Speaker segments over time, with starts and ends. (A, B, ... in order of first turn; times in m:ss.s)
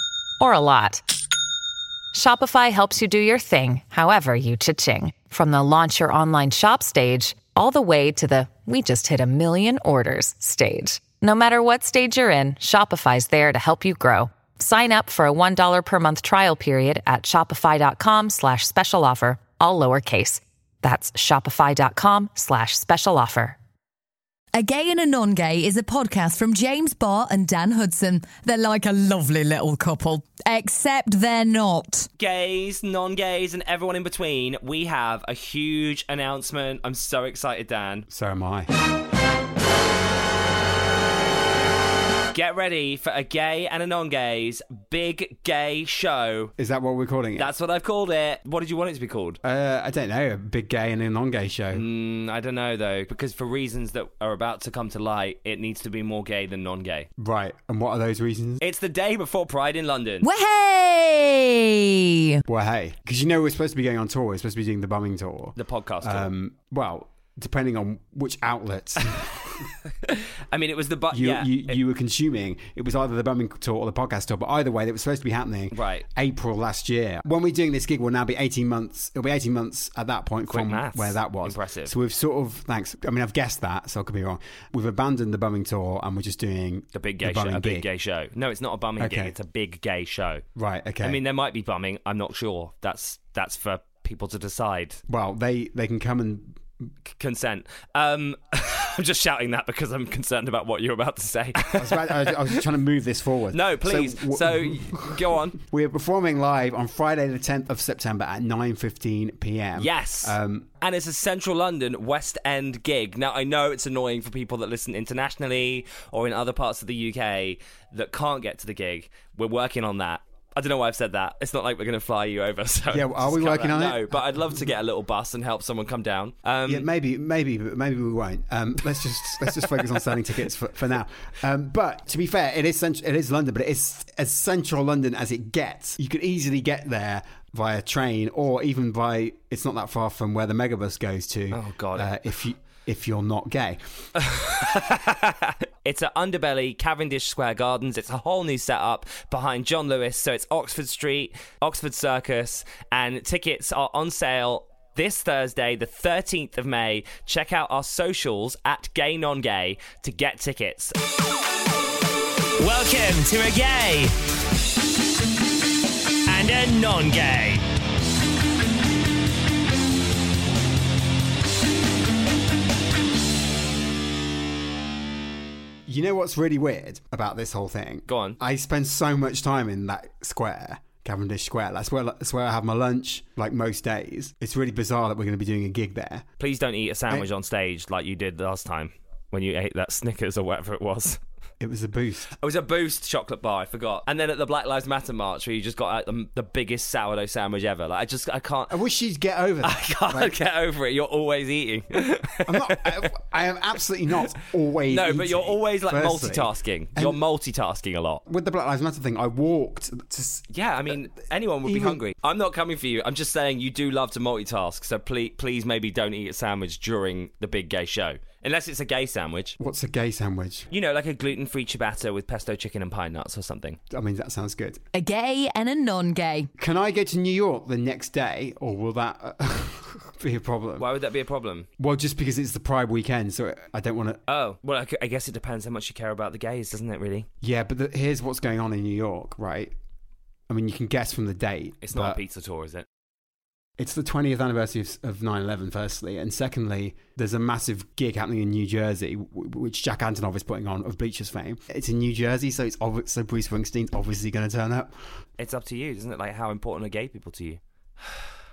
0:00.4-0:01.0 A
0:02.1-0:23.6 A
0:24.6-0:32.1 B
0:32.2-0:38.0 C
0:38.1-0:38.7 D
0:42.3-0:46.5 C
0:46.6-0:47.5 D
0:47.4-0:49.4 C
0:49.4-0:51.8 D
0:51.7-0:57.1 C
0:57.2-0:58.6 D
0:58.6-1:00.3 C
1:00.2-1:02.4 B
1:02.5-1:09.4 D
1:05.6-1:06.3 C
1:10.1-1:11.8 C
1:11.1-1:27.9 D
1:15.7-1:16.0 C
1:20.5-1:21.9 C
1:26.9-1:30.4 C
1:29.0-1:29.3 D
1:30.5-1:31.2 D
1:31.0-1:35.0 C
1:35.1-1:36.6 D
1:37.2-1:42.6 C
1:41.8-1:50.7 D
1:43.5-1:45.6 C
1:49.8-2:06.9 C
2:02.9-2:04.6 D
2:06.6-2:23.8 D
2:21.5-2:22.1 C
2:24.2-2:40.9 C
2:42.6-2:44.1 C
2:46.2-2:47.6 C
2:55.9-3:06.2 D
2:58.1-2:58.4 C
3:06.4-3:11.2 C
3:11.6-3:12.4 D
3:12.4-3:18.8 C
3:18.7-3:20.3 D
3:19.6-3:23.1 C
3:22.5-3:27.2 D
3:24.9-3:28.2 C
3:28.3-3:30.5 D
3:30.5-3:39.6 C
3:31.6-3:32.0 D
3:39.6-3:40.7 D
3:40.7-3:43.8 C
3:43.9-3:44.8 D
3:44.9-3:46.5 B
3:46.6-3:50.9 D
3:50.8-3:51.7 C
3:51.8-3:54.2 D
3:54.3-3:57.3 C
3:57.4-3:59.7 D
4:00.5-4:02.2 D
4:01.8-4:02.9 C
4:03.8-4:14.9 D
4:15.4-4:17.6 C